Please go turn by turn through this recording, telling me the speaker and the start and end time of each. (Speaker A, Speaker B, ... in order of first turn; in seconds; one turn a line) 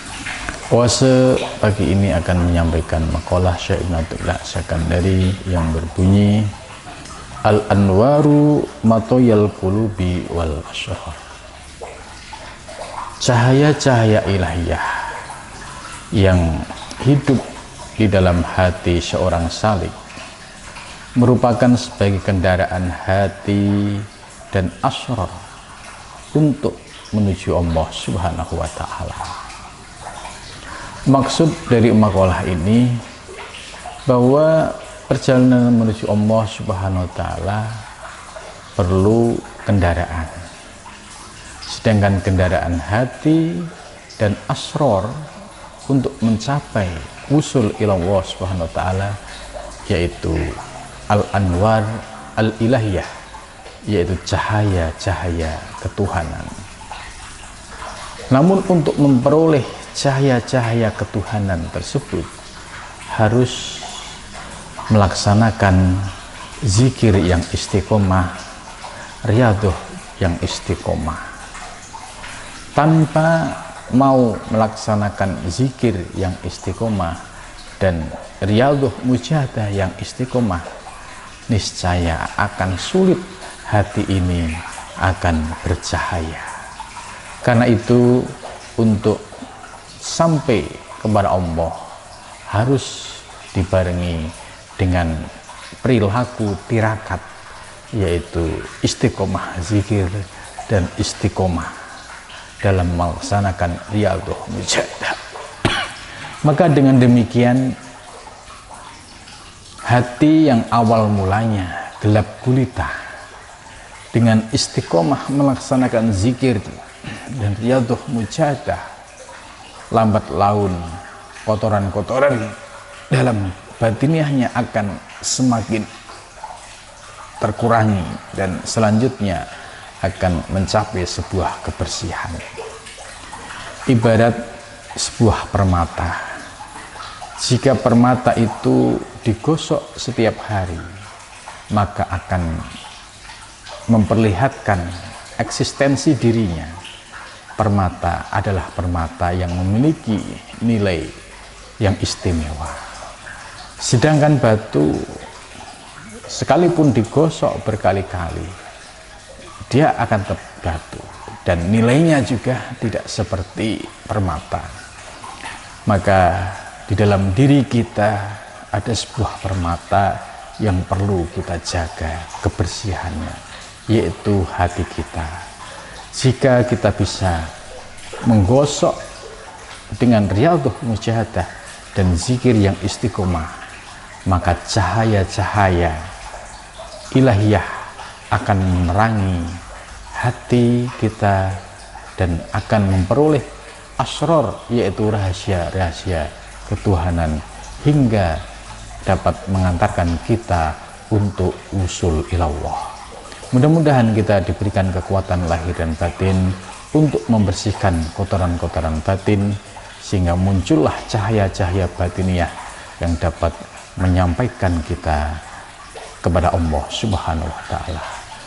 Speaker A: 0.7-6.5
Speaker A: 7.4-11.2
Speaker A: 13.2-15.2
Speaker A: 16.2-17.4
Speaker A: 18.0-19.9
Speaker A: 21.2-25.4
Speaker A: 26.3-29.4
Speaker A: 31.1-33.0
Speaker A: 34.0-37.8
Speaker A: 38.8-40.5
Speaker A: 41.6-45.2
Speaker A: 45.9-49.1
Speaker A: 49.9-50.5
Speaker A: 51.1-53.1
Speaker A: 53.9-56.5
Speaker A: 58.3-62.3
Speaker A: 63.1-64.1
Speaker A: 64.9-66.1
Speaker A: 66.7-68.3
Speaker A: 69.2-71.2
Speaker A: 72.7-77.2
Speaker A: 77.8-80.7
Speaker A: 81.5-86.5
Speaker A: 87.4-89.2
Speaker A: 90.0-91.8
Speaker A: 92.5-95.3
Speaker A: 95.8-97.2
Speaker A: 97.9-101.7
Speaker A: 102.6-105.7
Speaker A: 106.4-107.8
Speaker A: 109.8-113.0
Speaker A: 114.1-118.8
Speaker A: 119.9-122.6
Speaker A: 123.1-125.9
Speaker A: 127.4-129.4
Speaker A: 130.0-132.5
Speaker A: 133.9-134.4
Speaker A: 134.9-136.3
Speaker A: 137.4-140.9
Speaker A: 141.7-142.6
Speaker A: 143.9-146.8
Speaker A: 147.6-151.2
Speaker A: 151.8-152.8
Speaker A: 153.8-155.2
Speaker A: 156.3-158.5
Speaker A: 159.7-164.7
Speaker A: 165.9-175.3
Speaker A: 176.1-177.5
Speaker A: 178.2-179.0
Speaker A: 179.9-183.6
Speaker A: 184.3-186.0
Speaker A: 187.1-187.7
Speaker A: 188.3-189.6
Speaker A: 190.1-191.6
Speaker A: 192.2-193.5
Speaker A: 194.0-198.4
Speaker A: 199.0-202.9
Speaker A: 203.5-215.4
Speaker A: 216.2-218.1